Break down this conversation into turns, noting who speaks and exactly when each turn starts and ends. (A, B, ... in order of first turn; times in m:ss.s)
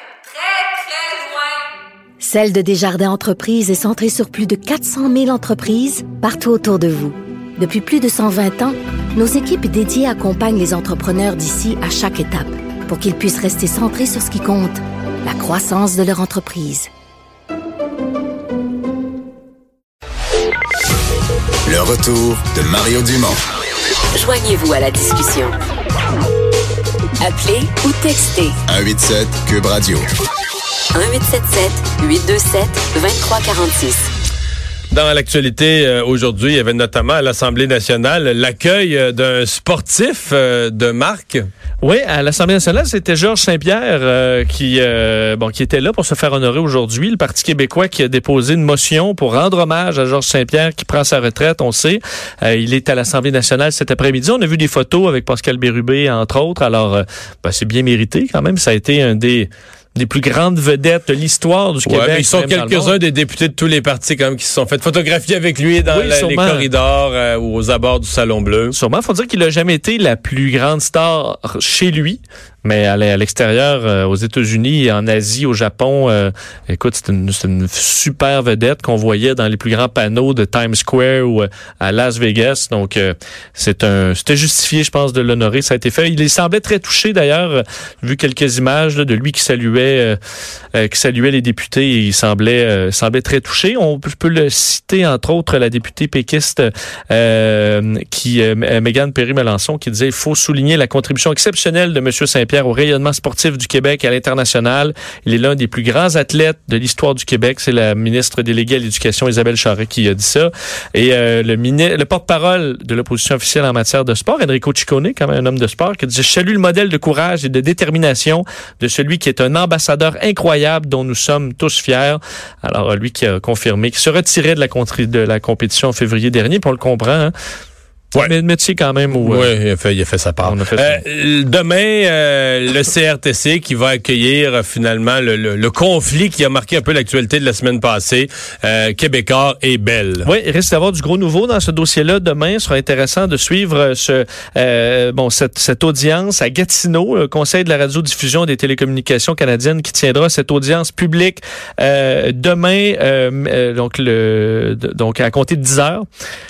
0:02.2-0:16.9 A
0:21.6-0:23.4 B
0:24.1-0:25.6 C
0:27.2-0:28.6 C
0:28.6-0:30.1 B
0:30.9-0:34.1 C
0:34.9-0:41.5 D
0:41.8-1:03.0 E
1:01.8-1:08.7 D
1:05.9-1:06.7 E
1:08.7-1:30.2 E
1:30.7-2:07.3 E
2:08.2-2:09.5 E
2:09.1-2:20.3 D
2:10.4-2:11.0 E
2:20.2-2:36.0 E